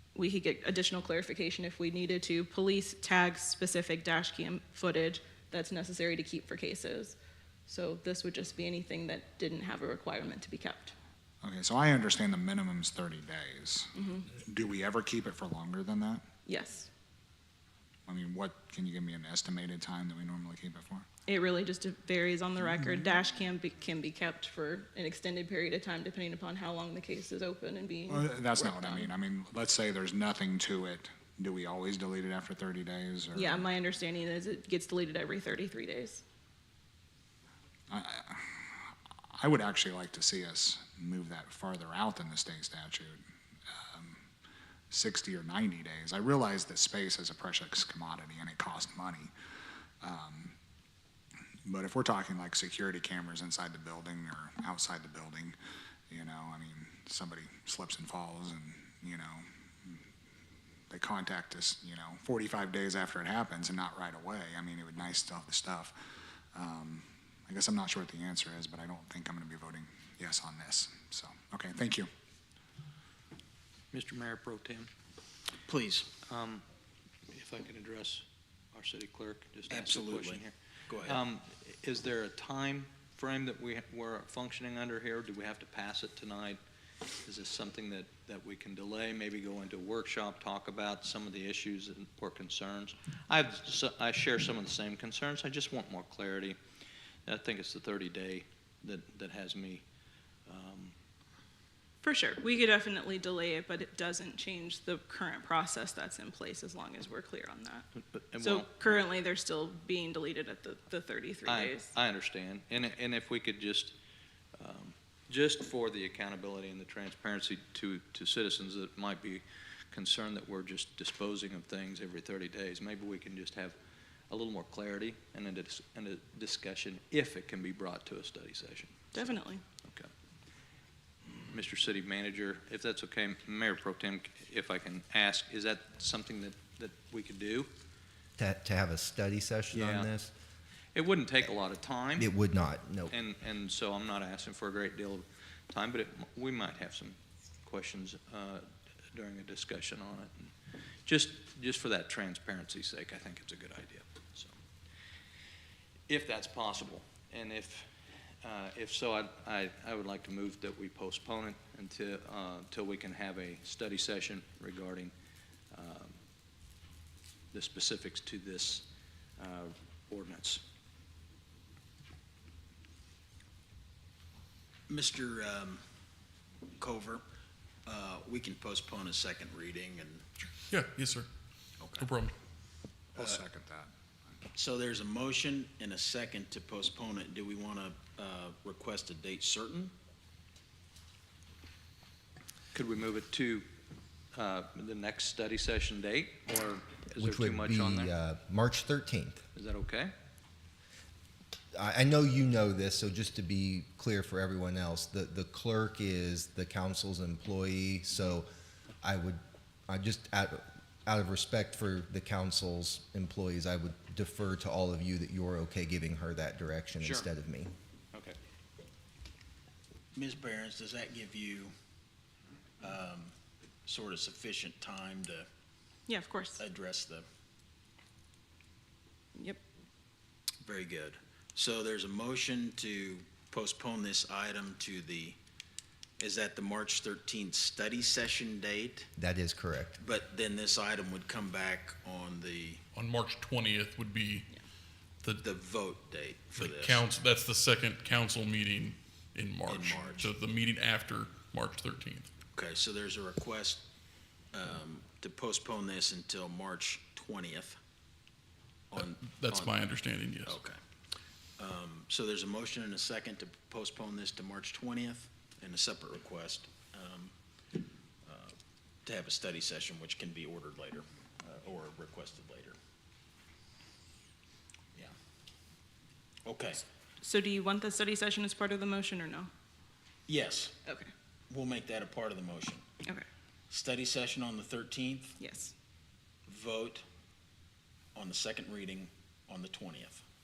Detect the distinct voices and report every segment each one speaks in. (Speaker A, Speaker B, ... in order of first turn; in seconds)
Speaker A: 0.1-7.2, 7.7-10.9, 13.9-14.3, 16.5-16.9, 21.3-29.1, 33.3-36.2, 102.0-107.9, 108.4-111.9, 129.1-129.6, 226.1-226.6, 229.3-229.6, 277.2-279.5, 280.9-281.1, 285.4-285.7
Speaker B: 11.4-13.9, 14.5-16.2, 18.1-21.1, 28.1-33.5, 37.9-38.7, 39.4-43.2, 43.9-44.3, 44.9-49.3, 50.0-50.6, 51.6-55.6, 56.1-60.0, 60.9-65.9, 66.5-72.1, 183.2-183.9
Speaker C: 73.9-74.9, 76.3-76.6, 77.3-86.6, 87.2-96.6, 97.3-99.8, 100.5-101.0, 108.1-109.0, 111.5-113.9, 114.6-123.8, 124.3-129.2, 129.8-130.1, 131.5-137.7, 139.7-140.1, 140.9-142.3, 143.1-150.5, 151.1-154.5, 156.1-157.9, 158.4-165.1, 165.7-166.2, 167.5-168.9, 169.4-170.6, 192.7-193.7, 194.3-198.1, 199.5-200.1, 217.0-217.3
Speaker D: 75.7-76.1, 79.7-81.2, 174.9-175.8, 176.8-177.2, 177.8-180.3, 181.8-182.1, 184.5-189.9, 220.1-221.7, 222.8-223.3, 223.8-225.5, 226.6-227.3, 230.6-235.4, 236.2-239.1, 240.0-242.8, 245.3-247.0, 249.7-250.3, 252.5-253.8, 254.5-257.8, 258.9-259.8, 260.4-260.8, 261.6-267.3, 268.2-272.8, 276.5-276.8, 280.3-280.8, 281.5-282.8, 283.7-285.4, 286.5-287.0, 288.1-290.2
Speaker E: 138.4-140.3, 142.2-143.2, 197.2-199.5, 201.7-208.5, 209.0-217.7, 239.2-240.0
Speaker F: 180.7-181.3, 182.0-182.3, 242.9-244.5, 246.5-252.3, 259.0-260.6